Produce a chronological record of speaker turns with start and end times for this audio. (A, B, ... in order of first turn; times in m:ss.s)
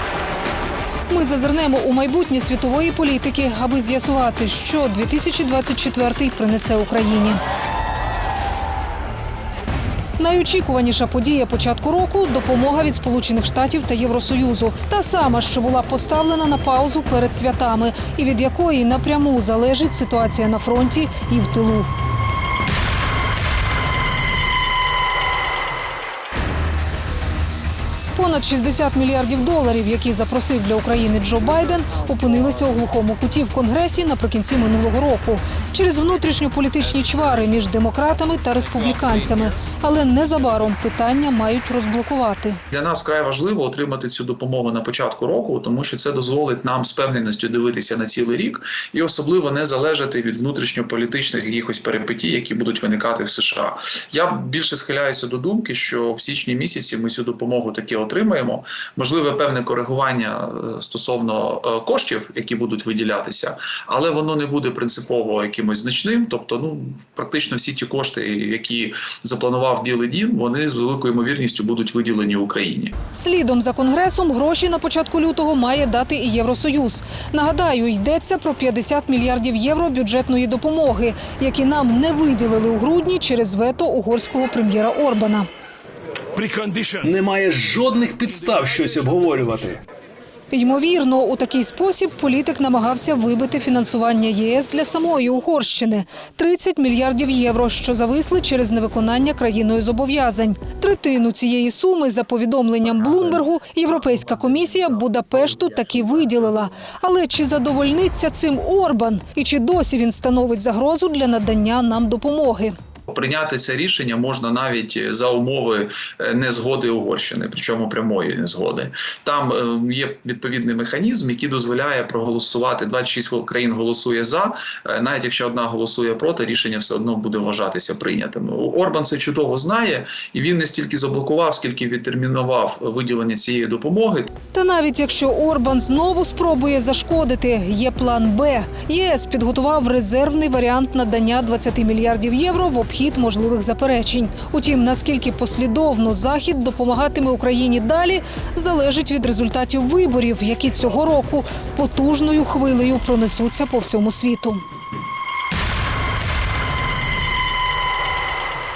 0:01.1-0:07.4 A
0:10.2-0:21.9 A
0:28.1-0:42.6 A
0:42.7-1:12.9 B
1:13.1-1:25.5 A
1:26.3-1:29.8 C
1:30.5-1:52.8 A
1:53.1-2:14.3 B
2:14.5-2:34.6 A